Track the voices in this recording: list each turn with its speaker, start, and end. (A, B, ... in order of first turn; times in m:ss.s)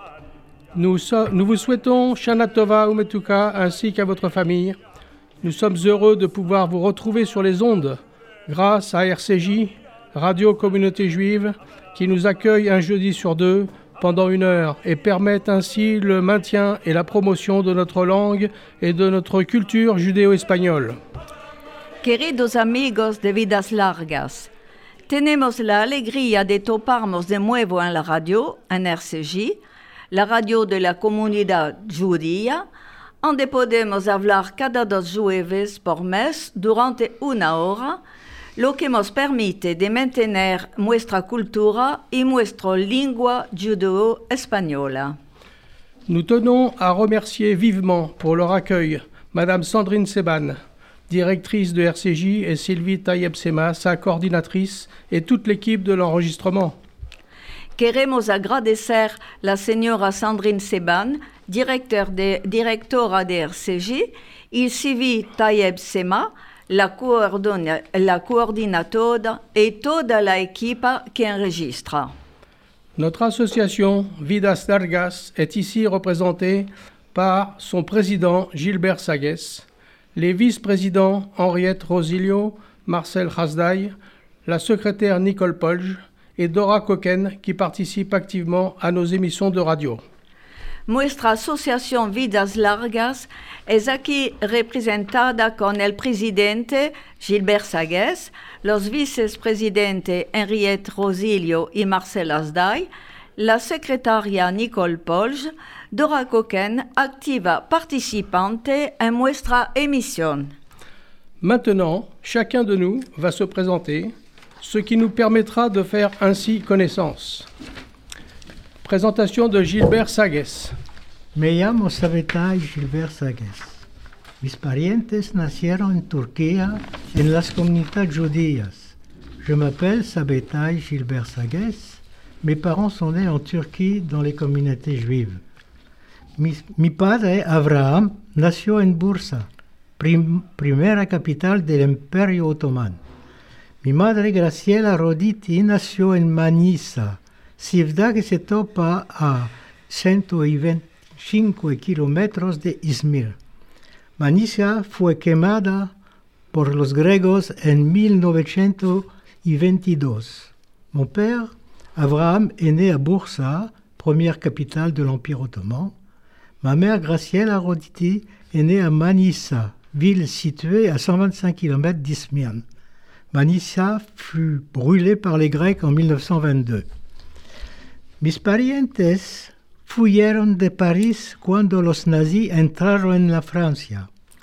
0:00.7-0:04.8 A
0:05.4-0:21.0 A
0:22.0-0:24.5 B
0:25.1-0:29.6 B
0:30.1-0:32.6 B
0:33.2-0:38.0 B
0:38.6-0:45.2 B
0:46.1-0:56.8 A
0:57.8-1:12.1 B
1:13.0-1:19.6 A
1:20.2-1:23.9 A
1:24.4-1:30.0 A
1:30.9-1:50.5 B
1:51.4-1:57.5 A
1:58.8-2:00.7 A
2:01.3-2:03.8 C
2:04.4-2:15.4 C
2:16.4-2:19.5 C
2:20.0-2:23.0 C
2:23.8-2:33.4 C
2:34.2-2:35.9 C
2:36.5-2:45.9 C
2:46.6-2:52.6 C
2:53.3-2:56.9 C
2:58.2-3:04.1 C